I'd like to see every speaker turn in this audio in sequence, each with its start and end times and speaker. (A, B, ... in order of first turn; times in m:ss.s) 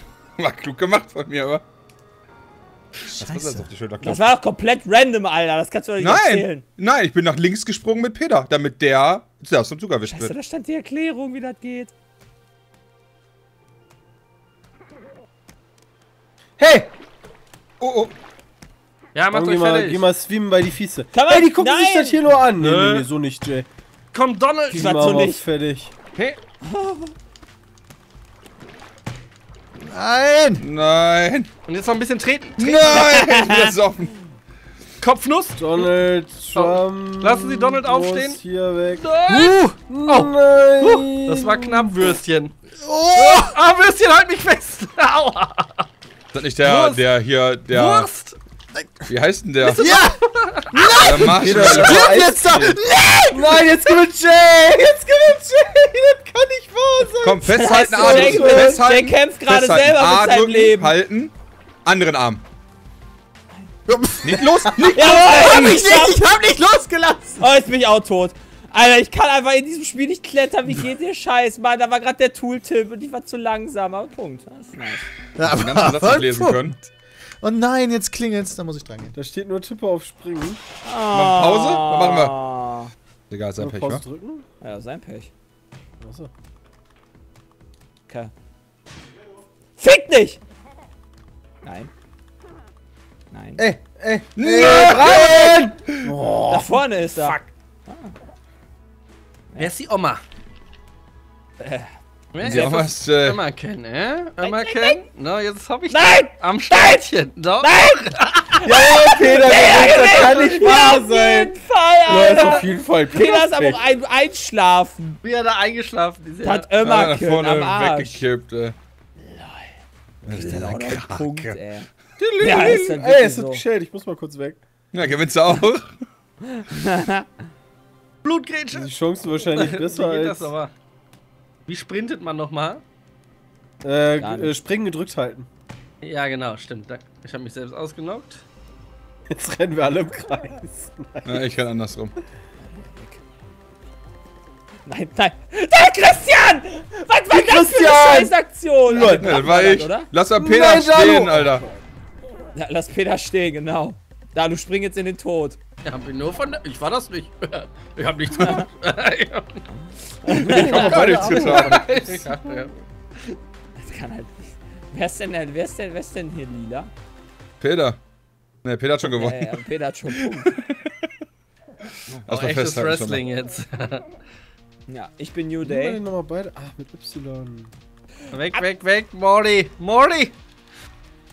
0:00.4-0:01.6 A
0:03.0-0:04.2 A
0:03.2-0:03.7 B
0:04.0-0:06.6 C
0:06.0-0:10.3 A
0:10.0-0:11.9 C
0:16.6-0:16.9 D
0:17.8-0:18.1 A
0:19.1-0:20.1 E
0:19.3-0:23.7 D
0:21.1-0:22.2 C
0:22.6-0:23.1 E
0:24.1-0:25.2 E
0:24.7-0:25.4 C
0:24.7-0:25.9 D
0:26.6-0:27.1 C
0:29.8-0:30.6 B
0:30.6-0:31.5 A
0:31.7-0:33.0 E
0:32.6-0:34.1 A
0:32.9-0:33.7 C
0:35.0-0:35.9 E
0:35.6-0:39.0 D
0:36.5-0:38.4 E
0:39.0-0:42.5 E
0:39.3-0:39.8 B
0:39.9-0:41.9 D
0:42.8-0:43.6 B
0:43.1-0:45.8 E
0:46.3-0:48.1 A
0:46.6-0:47.0 E
0:47.7-0:48.4 E
0:48.7-0:49.1 B
0:49.1-0:49.8 A
0:49.6-0:53.7 B
0:49.8-0:50.1 D
0:50.7-0:52.8 D
0:51.0-0:52.7 A
0:53.3-0:58.8 D
0:57.2-1:01.3 A
0:57.4-1:00.9 C
1:01.8-1:02.4 A
1:03.8-1:07.4 B
1:04.2-1:05.8 A
1:04.9-1:06.2 C
1:07.4-1:15.1 C
1:15.4-1:16.9 B
1:15.4-1:16.8 A
1:17.4-1:19.1 B
1:19.1-1:20.6 D
1:20.8-1:22.9 C
1:21.1-1:22.3 A
1:23.3-1:24.0 A
1:23.6-1:24.4 D
1:24.6-1:25.3 C
1:26.0-1:26.3 D
1:29.8-1:30.4 C
1:31.6-1:31.9 C
1:33.3-1:33.6 C
1:33.6-1:36.8 D
1:34.4-1:36.1 A
1:36.5-1:38.1 C
1:39.6-1:40.2 E
1:41.6-1:41.9 C
1:42.3-1:48.6 E
1:42.4-1:43.4 A
1:42.4-1:42.7 C
1:44.4-1:45.0 C
1:45.9-1:47.1 C
1:47.6-1:55.2 C
1:48.6-1:53.8 D
1:55.2-1:56.7 E
1:56.4-1:58.2 C
1:56.8-1:58.7 A
2:00.2-2:01.6 A
2:00.3-2:03.6 C
2:02.2-2:04.6 D
2:04.9-2:06.0 A
2:06.5-2:07.3 C
2:08.2-2:08.9 E
2:08.7-2:10.5 D
2:09.5-2:10.7 E
2:11.7-2:12.8 E
2:13.8-2:15.5 D
2:14.2-2:14.5 C
2:16.0-2:18.4 E
2:19.3-2:21.4 D
2:21.2-2:22.1 A
2:22.7-2:23.2 C
2:24.8-2:30.1 C
2:27.3-2:28.4 D
2:28.9-2:29.4 D
2:29.1-2:31.6 A
2:30.4-2:31.7 D
2:32.5-2:35.6 C
2:35.8-2:39.7 E
2:40.2-2:41.0 C
2:40.3-2:41.8 A
2:40.4-2:42.7 E
2:40.8-2:42.3 D
2:43.8-2:46.9 C
2:47.6-2:48.0 A
2:48.6-2:49.6 A
2:49.0-2:50.5 C
2:50.3-2:50.8 A
2:52.2-2:53.2 A
2:52.3-2:54.1 E
2:54.9-2:56.0 C
2:55.6-2:57.7 D
2:58.3-3:00.3 E